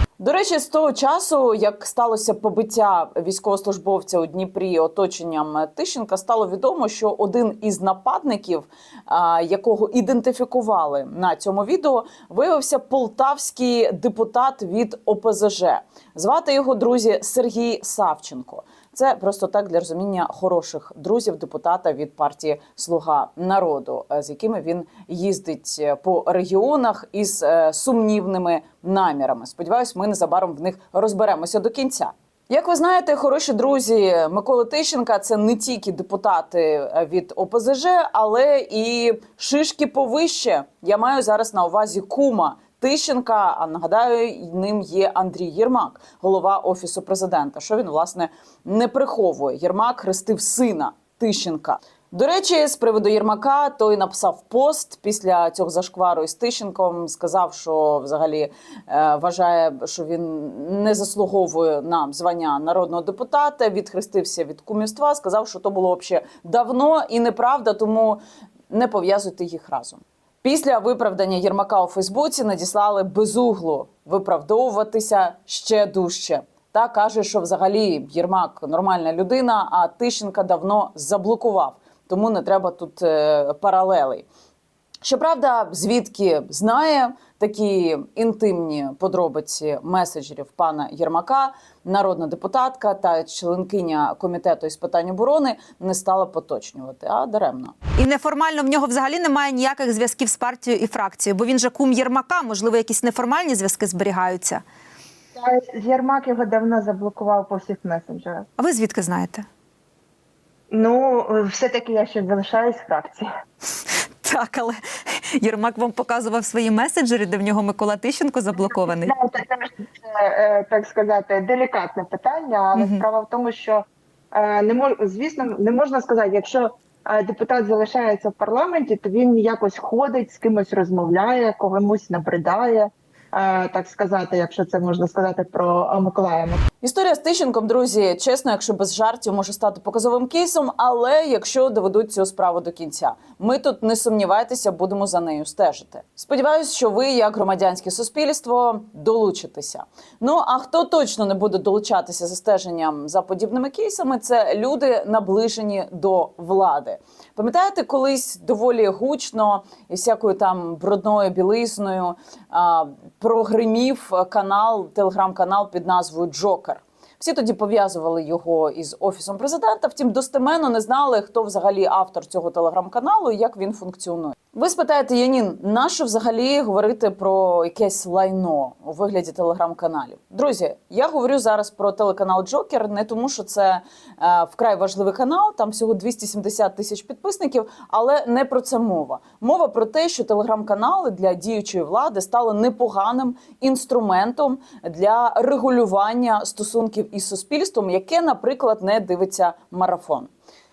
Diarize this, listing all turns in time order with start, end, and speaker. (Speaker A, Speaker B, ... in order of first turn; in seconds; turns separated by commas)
Speaker A: 0.2-84.3, Speaker A: 85.0-97.8, Speaker B: 98.0-104.6, Speaker C: 105.3-108.5, Speaker B: 108.6-109.5, Speaker C: 110.7-113.3, Speaker B: 114.2-114.8, Speaker B: 115.3-119.1, Speaker C: 118.6-136.6, Speaker B: 122.7-123.0, Speaker A: 136.8-200.3